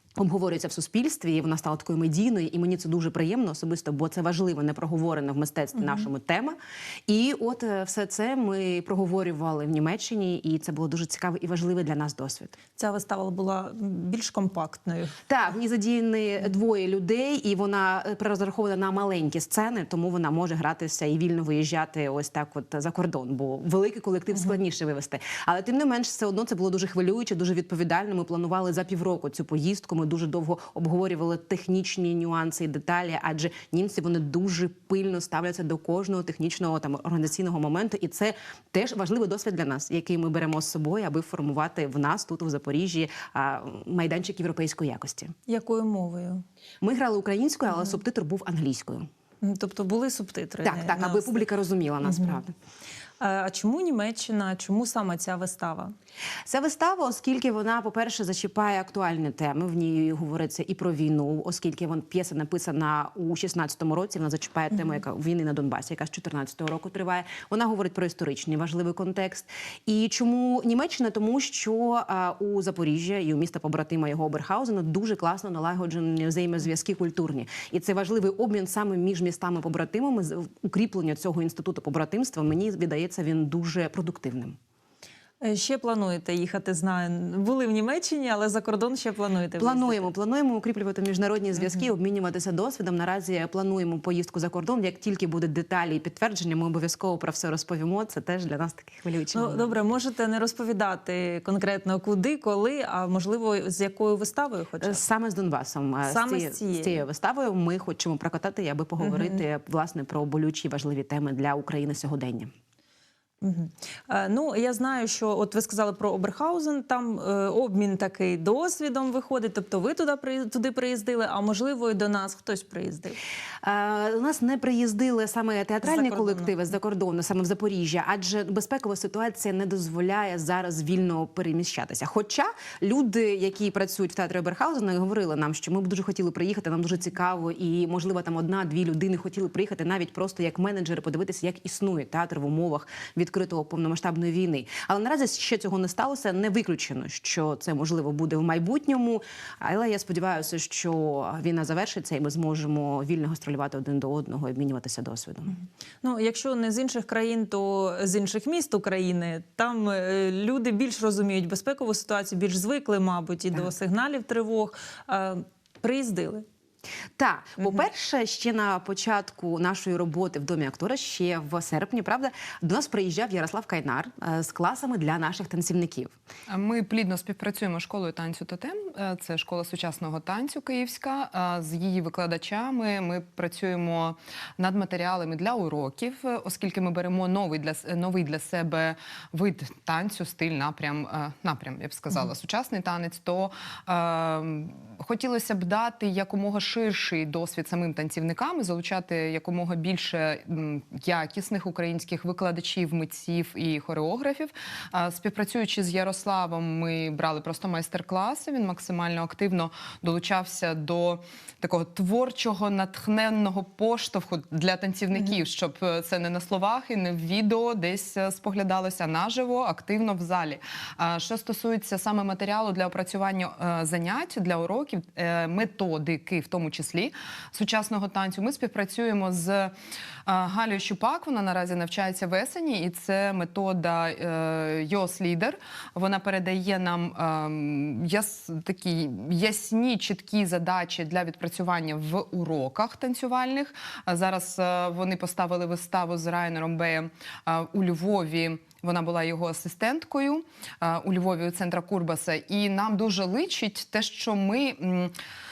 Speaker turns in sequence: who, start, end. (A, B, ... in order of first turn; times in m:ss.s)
0:00.1-0:12.6 A
0:12.8-0:15.2 B
0:15.3-0:45.3 A
0:45.5-0:46.4 B
0:46.8-0:49.1 A
0:49.4-0:51.4 B
0:50.6-0:52.5 A
0:52.0-0:52.4 B
0:53.2-0:55.9 B
0:56.4-1:24.6 A
1:25.4-1:30.1 B
1:29.6-1:39.8 A
1:39.3-1:45.0 B
1:44.8-1:52.5 A
1:46.0-1:47.0 B
1:49.0-1:49.4 B
1:53.4-2:03.2 B
2:03.6-2:35.6 A
2:05.8-2:06.5 B
2:36.0-2:46.4 B
2:47.2-2:56.1 A
2:56.5-3:49.7 C
3:50.2-4:15.1 C